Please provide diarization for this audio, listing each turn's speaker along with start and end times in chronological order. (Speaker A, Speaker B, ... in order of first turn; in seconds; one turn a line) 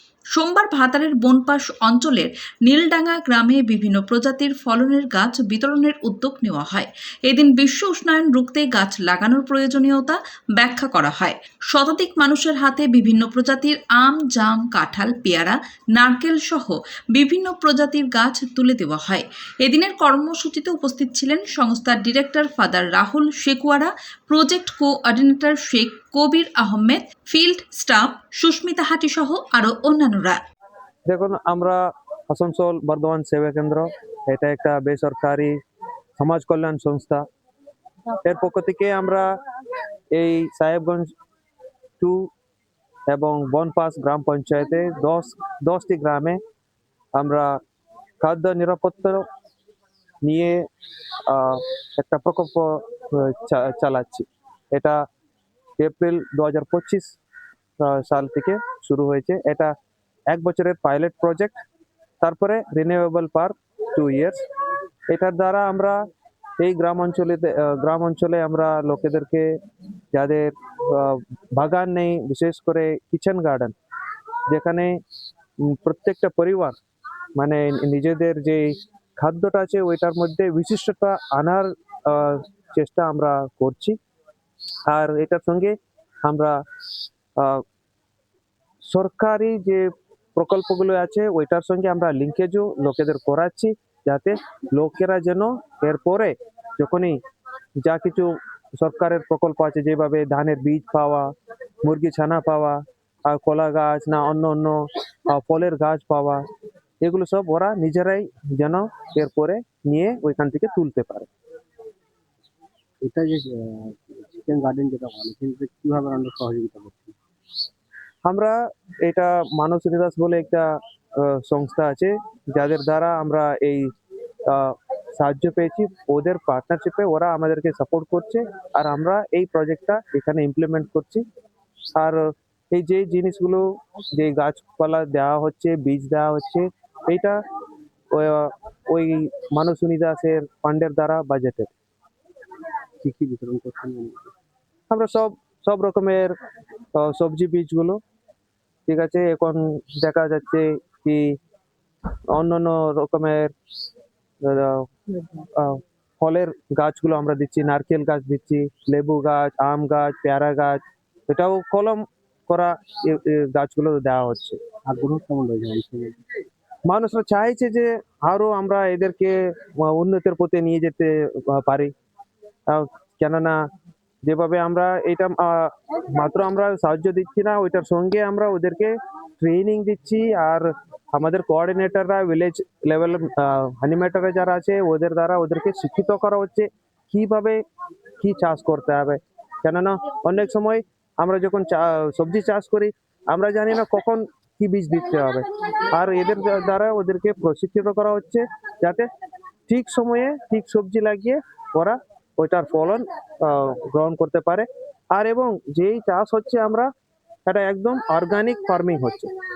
Speaker A: 0.3-30.4
Speaker B: 31.1-35.6
Speaker B: 36.2-37.2
Speaker B: 38.2-39.3
Speaker B: 40.1-41.1
Speaker B: 42.0-42.3
Speaker B: 43.1-46.4
Speaker B: 47.1-47.6
Speaker B: 48.2-49.2
Speaker B: 50.2-50.6
Speaker B: 51.3-55.0
Speaker B: 55.8-57.2
Speaker B: 57.8-59.7
Speaker B: 60.3-61.6
Speaker B: 62.2-64.4
Speaker B: 65.1-66.0
Speaker B: 66.6-69.5
Speaker B: 70.1-73.7
Speaker B: 74.5-75.0
Speaker B: 75.6-76.8
Speaker B: 77.4-84.0
Speaker B: 84.9-86.6
Speaker B: 87.4-87.6
Speaker B: 88.9-97.2
Speaker B: 97.8-101.3
Speaker B: 101.8-106.5
Speaker B: 107.0-111.3
Speaker C: 113.0-117.2
Speaker B: 118.2-123.9
Speaker B: 124.5-131.2
Speaker B: 131.9-137.4
Speaker B: 138.1-141.7
Speaker C: 143.0-144.3
Speaker B: 144.9-146.3
Speaker B: 146.9-148.0
Speaker B: 148.9-151.4
Speaker B: 152.3-153.5
Speaker B: 154.4-154.9
Speaker B: 155.6-164.6
Speaker C: 164.9-166.2
Speaker B: 166.9-171.9
Speaker B: 172.7-173.6
Speaker B: 174.2-187.6
Speaker B: 188.2-199.1
Speaker B: 199.7-206.9
Speaker B: 207.5-209.3